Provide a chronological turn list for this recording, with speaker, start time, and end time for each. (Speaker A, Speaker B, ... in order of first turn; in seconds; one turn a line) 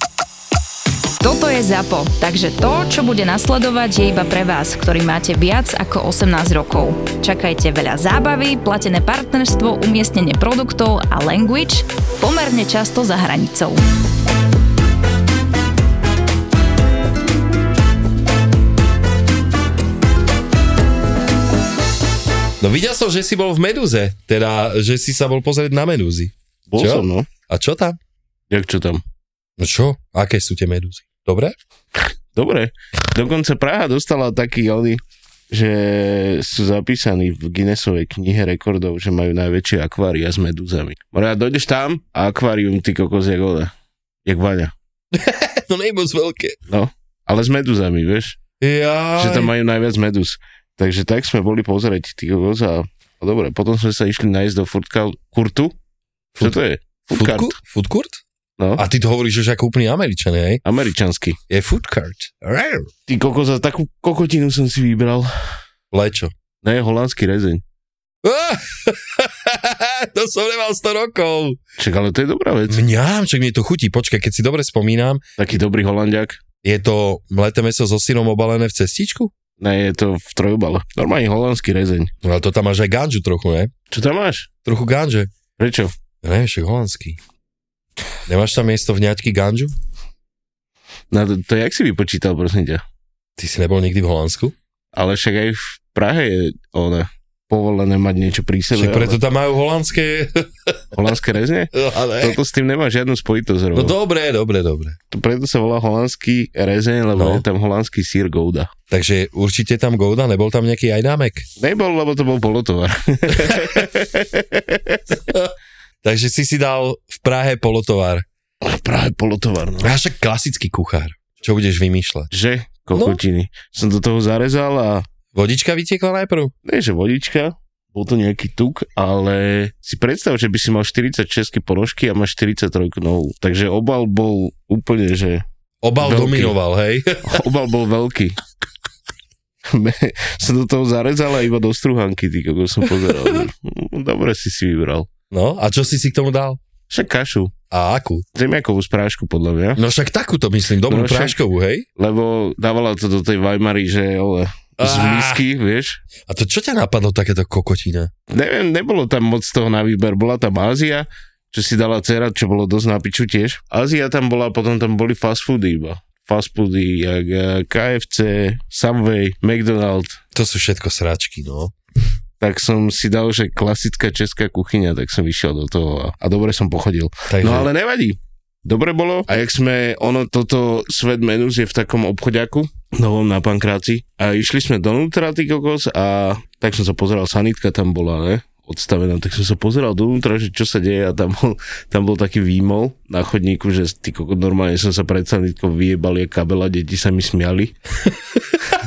Speaker A: 1.2-13.8
Speaker B: 22.6-28.0
Speaker C: 26.7-27.3
Speaker C: 28.5-29.0
Speaker B: 29.6-31.6
Speaker C: 32.4-43.7
Speaker C: 44.3-44.7
Speaker B: 45.1-46.6
Speaker C: 46.7-48.4
Speaker B: 48.6-49.5
Speaker C: 49.2-55.7
Speaker C: 56.4-57.5
Speaker B: 57.1-58.2
Speaker B: 58.8-60.6
Speaker C: 60.6-61.4
Speaker B: 61.5-62.9
Speaker C: 63.1-65.3
Speaker B: 65.9-66.3
Speaker C: 66.6-67.6
Speaker B: 68.2-71.6
Speaker C: 71.8-72.8
Speaker B: 72.7-75.2
Speaker C: 75.4-76.4
Speaker B: 76.6-79.3
Speaker C: 79.6-82.1
Speaker B: 82.2-83.7
Speaker C: 83.9-84.5
Speaker B: 84.7-85.3
Speaker C: 85.6-85.9
Speaker B: 86.2-87.2
Speaker B: 88.3-89.8
Speaker C: 91.1-92.8
Speaker B: 93.4-94.5
Speaker C: 94.9-99.2
Speaker B: 98.7-100.8
Speaker C: 100.9-104.0
Speaker B: 101.7-102.4
Speaker B: 103.7-105.0
Speaker C: 105.1-108.7
Speaker B: 107.2-107.5
Speaker B: 108.9-111.5
Speaker C: 111.6-115.0
Speaker B: 113.4-113.8
Speaker B: 115.1-118.3
Speaker C: 118.6-119.9
Speaker B: 119.8-122.3
Speaker C: 122.3-125.1
Speaker B: 122.9-123.2
Speaker B: 125.3-126.5
Speaker C: 126.7-135.4
Speaker B: 135.8-137.3
Speaker C: 136.0-136.6
Speaker C: 137.2-138.4
Speaker C: 139.7-145.1
Speaker B: 145.3-146.6
Speaker C: 146.9-147.5
Speaker B: 147.7-148.2
Speaker C: 148.3-149.8
Speaker B: 149.8-151.9
Speaker C: 150.9-151.4
Speaker C: 152.0-156.0
Speaker B: 154.8-155.4
Speaker B: 156.3-158.1
Speaker C: 158.3-170.2
Speaker B: 170.3-171.8
Speaker C: 172.4-197.8
Speaker B: 177.3-177.7
Speaker B: 198.1-198.4